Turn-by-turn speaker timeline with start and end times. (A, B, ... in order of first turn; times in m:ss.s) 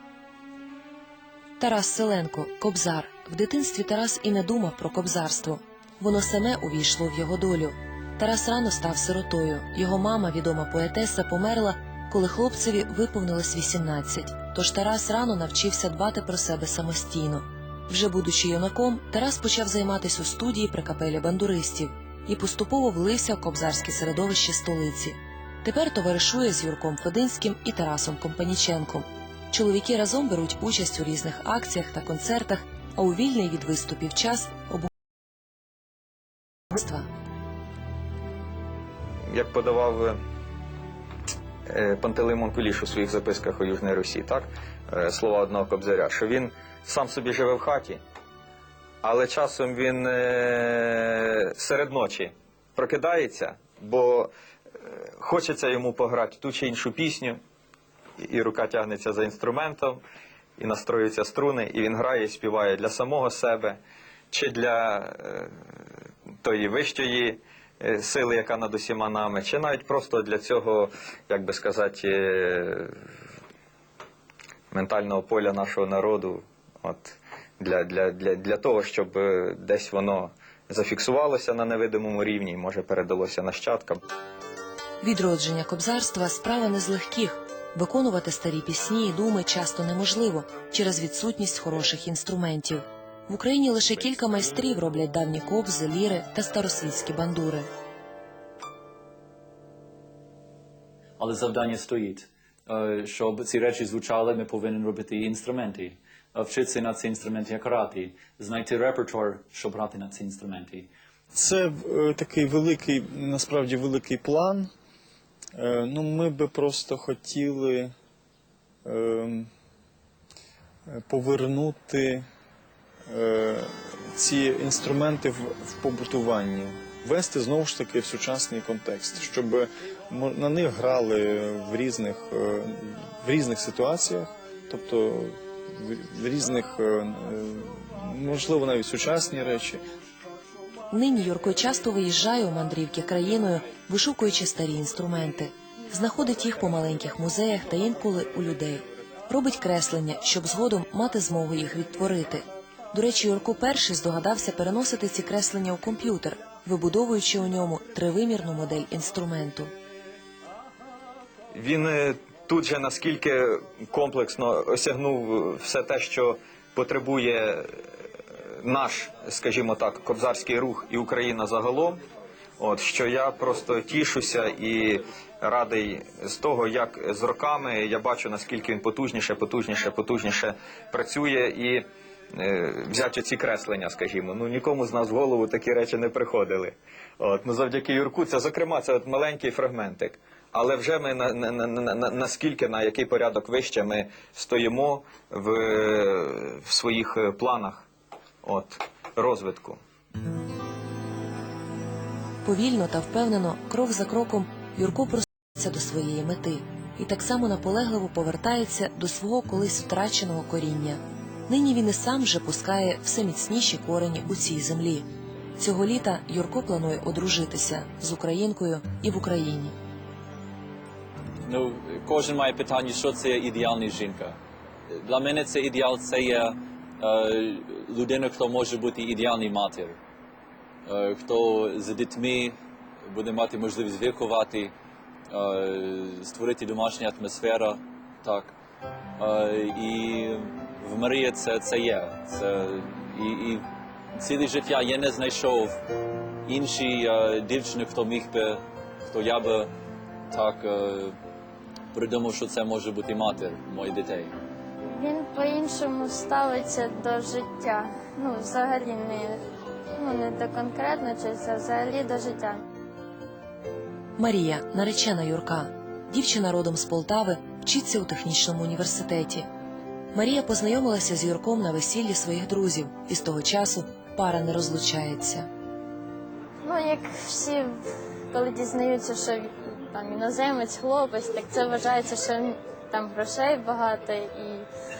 0:01.6-0:34.9 A
0:36.7-0:37.1 A
0:39.3-0:40.2 B
0:41.7-0:48.0 B
0:49.0-0:54.3 B
0:54.8-0:57.4 B
0:58.2-1:00.0 B
1:00.6-1:03.8 B
1:04.3-1:05.6 B
1:06.4-1:13.0 B
1:14.7-1:24.0 B
1:25.0-1:37.7 A
1:41.2-1:50.9 C
1:51.3-1:54.7 D
1:55.6-1:57.9 D
1:58.8-1:59.5 D
2:00.9-2:02.3 D
2:03.1-2:19.8 D
2:20.9-2:39.7 A
2:41.5-2:47.8 B
2:48.6-2:52.0 B
2:52.6-3:17.9 B
3:18.4-3:19.8 B
3:22.4-3:35.1 A
3:35.6-3:39.8 A
3:41.5-3:50.0 C
3:50.9-3:54.7 C
3:55.3-3:58.6 C
3:59.2-4:03.6 C
4:04.2-4:05.8 C
4:06.5-4:09.7 C
4:10.3-4:11.2 C
4:11.9-4:14.4 C
4:14.9-4:19.4 E
4:20.0-4:22.6 E
4:24.2-4:29.5 A
4:30.1-4:35.5 A
4:36.6-4:44.7 E